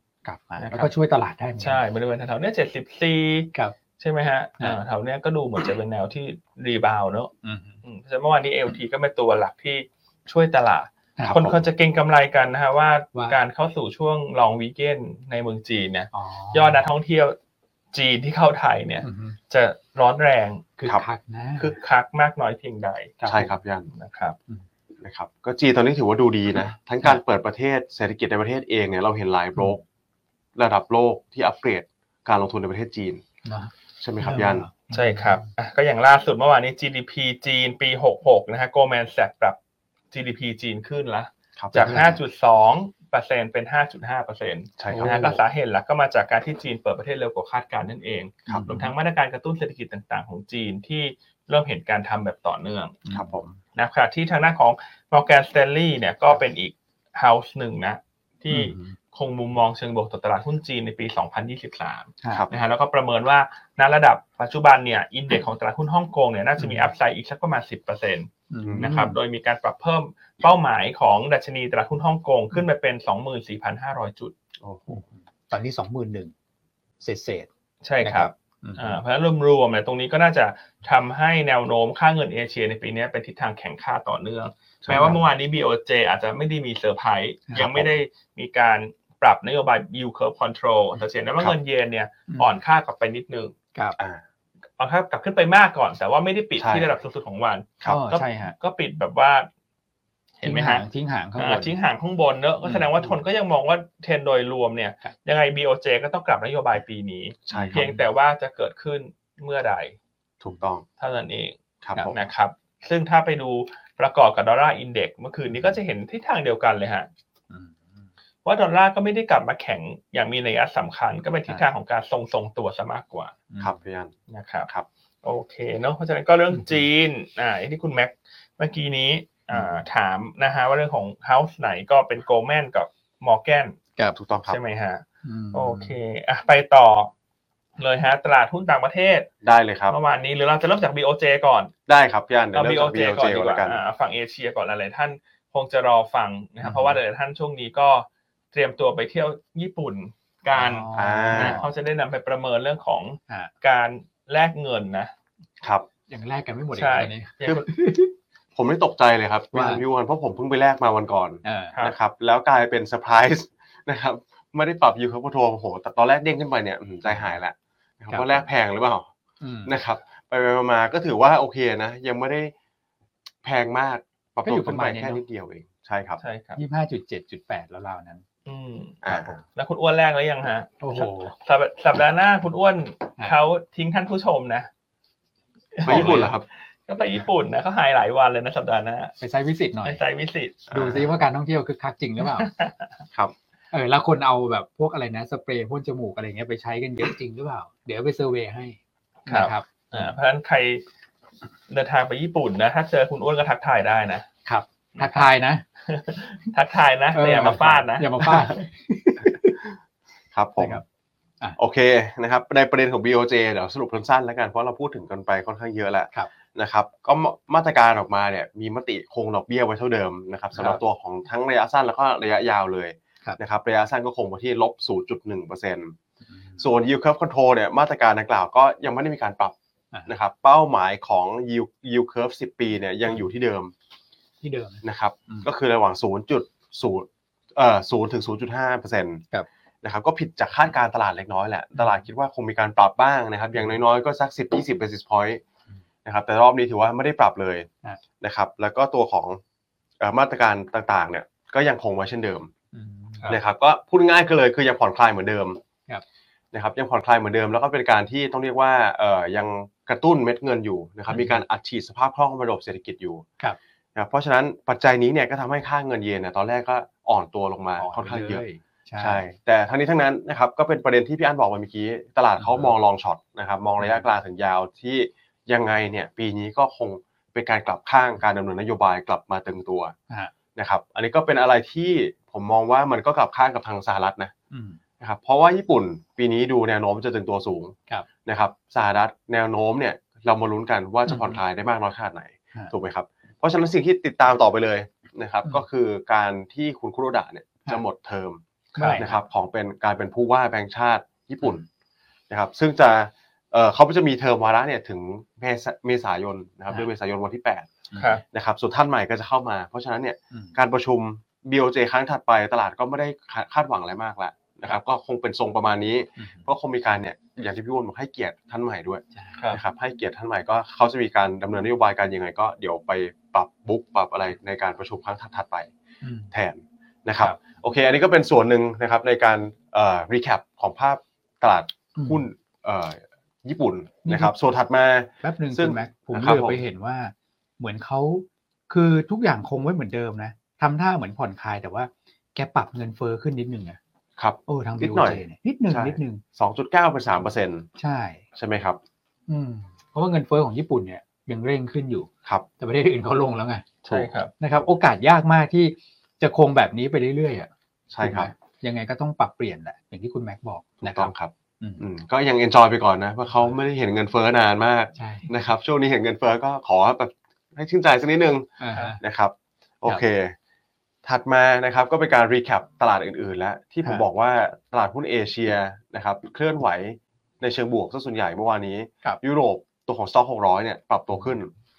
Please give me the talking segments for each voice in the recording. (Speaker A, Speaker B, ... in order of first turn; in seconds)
Speaker A: 0.2-1.8, 7.4-7.8, 16.1-16.9, 19.0-19.4, 20.8-21.7, 33.5-35.5, 41.8-42.2, 44.9-45.4, 48.5-48.9, 53.0-53.6, 58.5-59.0, 66.6-66.9, 68.5-69.2, 74.9-76.3, 77.0-77.5, 78.0-79.0, 84.9-85.2, 97.9-98.5, 100.4-101.8, 107.5-108.0, 117.5-118.1, 123.5-123.8, 135.2-135.9, 146.6-147.0, 150.5-151.7, 156.1-158.1, 159.5-159.8, 161.4-161.8, 168.1-168.5, 169.4-169.7, 174.4-175.2, 176.6-178.2, 180.8-181.3, 185.8-186.3, 189.2-190.0, 190.7-192.5, 193.7-200.1, 204.5-205.6, 207.1-209.6, 210.6-210.8, 220.6-220.8, 226.3-226.7, 234.4-235.5, 241.8-242.0, 252.7-253.4, 261.1-261.4, 267.8-269.2, 272.4-272.7, 273.8-274.1, 284.5-284.8, 291.1-291.4, 298.8-299.2, 307.9-308.2, 310.3-310.6, 316.2-316.5, 319.1-319.4, 326.0-326.3, 331.9-332.2, 334.1-334.3, 335.2-343.8, 344.5-346.2, 347.8-348.2, 349.3-353.7, 354.4-357.5, 358.0-361.8, 365.0-365.3, 368.6-369.0
Speaker B: 0.6-0.9, 1.6-7.3, 7.8-17.4, 17.9-20.7, 21.6-23.3, 23.9-24.4, 34.9-39.6, 40.1-53.0, 53.8-74.3, 77.8-93.5, 94.8-99.5, 100.4-100.8, 101.4-110.0, 111.0-111.6, 112.1-117.1, 118.5-123.3, 124.3-124.7, 125.2-133.8, 134.5-137.1, 137.8-139.3, 139.9-141.7, 142.5-155.1, 156.8-157.7, 176.2-176.6, 178.5-179.0, 179.6-184.7, 185.8-189.2, 189.8-190.7, 192.2-192.9, 199.3-200.8, 201.7-204.3, 205.0-205.2, 205.9-208.6, 298.8-299.0, 308.0-308.2, 353.9-354.3
Speaker C: 11.3-11.6, 23.2-23.9, 25.0-29.8, 30.6-33.2, 34.0-34.7, 41.6-42.1, 44.8-45.3, 53.1-53.5, 68.6-68.9, 74.6-75.0, 84.8-85.2, 87.6-87.9, 96.6-96.9, 107.5-107.8, 110.4-110.8, 111.8-112.2, 123.6-124.1, 129.5-129.8, 134.2-134.6, 139.4-140.0, 141.9-143.8, 150.9-151.6, 158.6-169.1, 169.7-172.5, 173.4-176.2, 179.0-179.4, 185.8-186.5, 190.7-191.1, 210.3-210.8, 211.6-225.9, 226.6-229.6, 230.1-233.7, 234.8-239.2, 239.8-245.4, 246.1-247.7, 248.2-249.4, 250.0-252.5, 253.3-255.6, 256.5-263.2, 263.9-268.4, 269.0-279.9, 280.6-284.3, 285.0-298.4, 299.0-301.6, 302.3-307.7, 308.3-325.7, 326.3-336.6, 344.2-347.7, 348.4-348.8, 357.9-358.3, 360.8-370.4, 371.0-381.5